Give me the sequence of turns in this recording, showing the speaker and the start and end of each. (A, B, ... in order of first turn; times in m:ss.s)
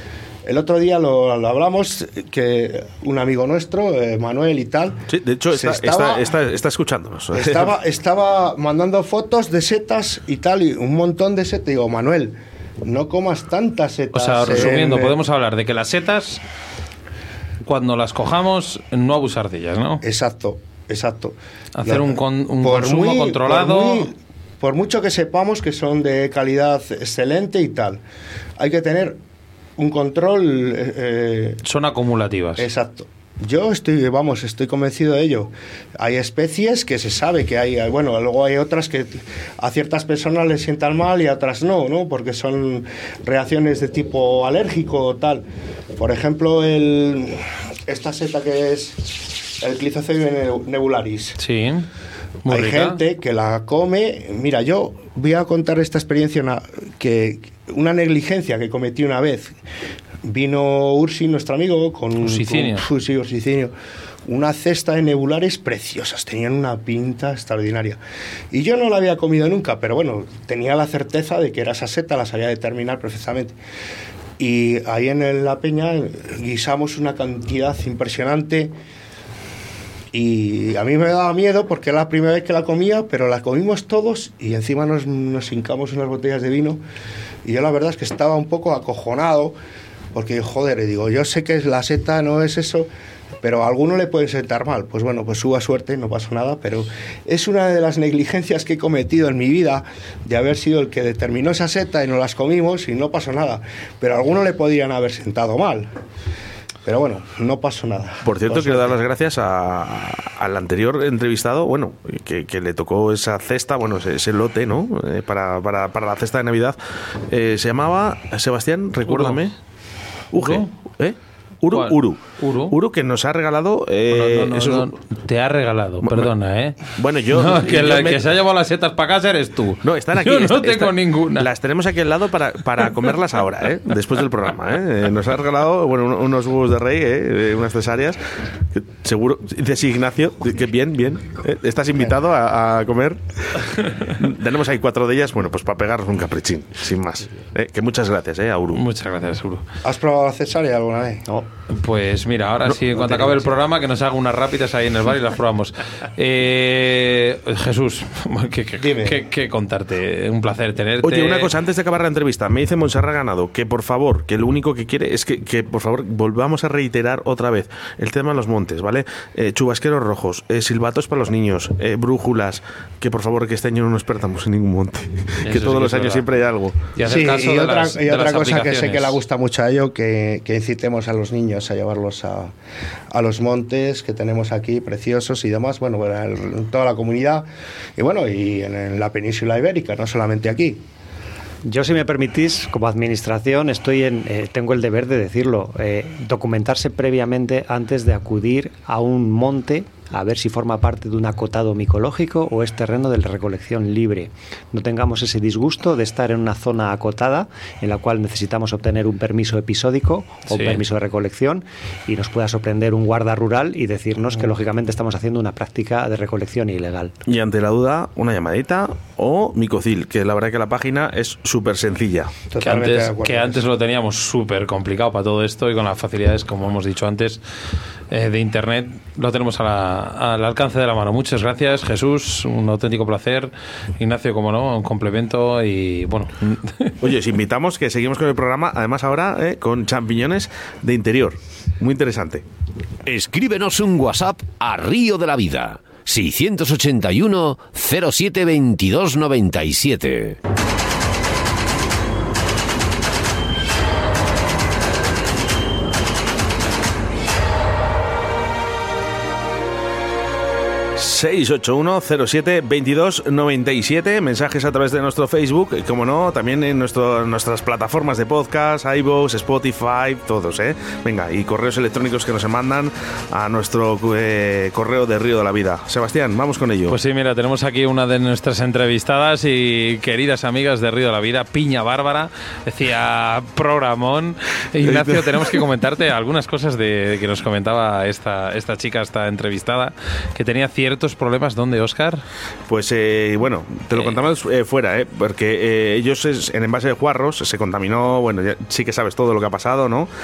0:00.5-0:05.0 A
0:05.1-0:07.8 B
0:05.5-0:06.3 A
0:07.3-0:15.2 A
0:14.1-0:16.4 C
0:17.6-0:20.0 C
0:20.0-0:28.0 A
0:21.8-0:24.1 C
0:28.6-0:29.2 A
0:29.8-0:31.6 A
0:31.6-0:32.7 C
0:32.6-0:45.4 A
0:46.0-0:51.4 A
0:51.4-0:51.9 C
0:52.5-0:53.0 C
0:52.5-0:59.6 A
1:00.2-1:03.7 A
1:02.2-1:02.9 C
1:04.3-1:08.0 A
1:08.5-1:13.6 A
1:14.4-1:18.7 A
1:20.1-1:26.8 A
1:27.4-1:29.6 A
1:30.1-1:32.9 A
1:33.4-1:45.9 A
1:46.8-1:49.0 A
1:48.2-1:56.8 B
1:57.3-1:59.6 B
1:59.1-1:59.4 C
2:00.3-2:04.9 B
2:00.4-2:00.7 C
2:01.7-2:02.8 C
2:04.1-2:06.8 C
2:06.0-2:06.3 B
2:06.9-2:08.2 B
2:07.3-2:11.5 C
2:09.8-2:18.2 B
2:18.7-2:28.8 B
2:28.7-2:29.6 C
2:29.8-2:31.3 A
2:31.7-2:41.5 C
2:33.0-2:33.5 A
2:38.8-2:39.2 A
2:41.0-2:56.8 B
2:55.4-2:56.3 C
2:57.0-2:59.2 C
2:57.0-3:02.5 A
3:03.1-3:10.8 A
3:11.6-3:37.1 D
3:30.5-3:30.8 C
3:37.3-3:42.4 B
3:42.5-3:43.6 A
3:42.6-3:47.4 C
3:48.1-3:57.0 C
3:57.0-4:02.4 B
4:03.1-4:10.4 E
4:21.0-4:37.0 B
4:36.9-4:52.2 C
4:44.8-4:45.6 B
4:52.7-5:00.1 B